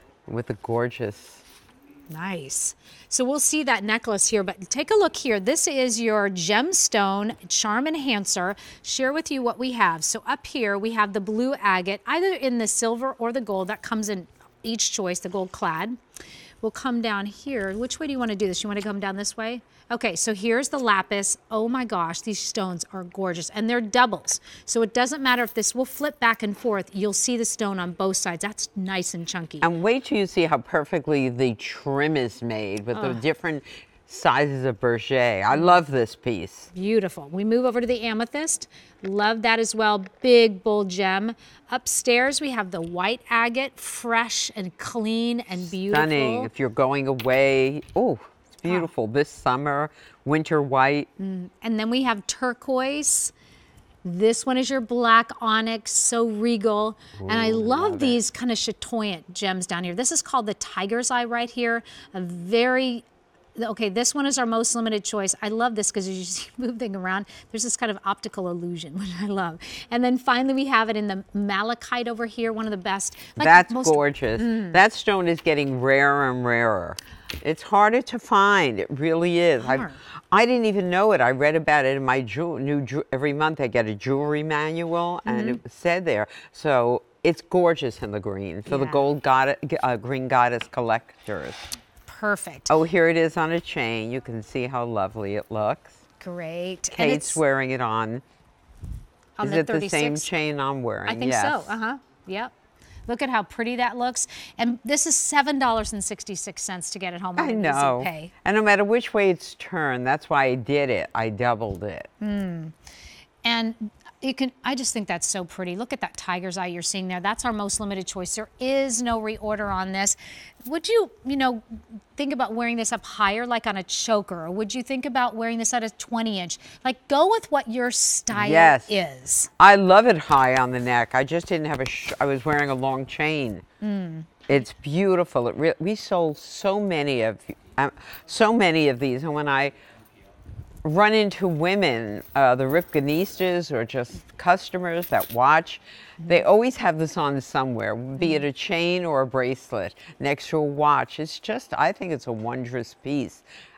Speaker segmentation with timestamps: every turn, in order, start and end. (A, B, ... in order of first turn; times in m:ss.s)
0:00.3-0:01.4 A
0:02.1-0:16.0 B
0:16.6-0:29.7 B
0:29.6-0:36.7 A
0:32.9-0:33.2 B
0:35.5-0:35.8 B
0:36.7-0:46.5 B
0:45.6-0:51.1 A
0:51.2-0:53.3 B
0:54.0-1:03.0 B
0:57.2-0:58.2 A
1:03.6-1:14.8 B
1:13.4-1:31.6 A
1:19.6-1:20.0 B
1:25.2-1:25.6 B
1:28.7-1:29.0 B
1:32.0-1:32.7 B
1:32.7-1:36.0 A
1:36.2-1:37.4 B
1:36.9-1:38.2 A
1:39.4-1:40.3 B
1:39.4-1:41.8 A
1:41.1-1:42.5 B
1:43.1-1:48.3 B
1:47.4-1:52.1 A
1:52.2-1:52.7 B
1:53.4-2:09.5 B
2:08.3-2:08.9 A
2:09.6-2:13.6 A
2:13.8-2:14.4 B
2:14.5-2:19.7 A
2:20.8-2:33.4 A
2:28.2-2:28.4 B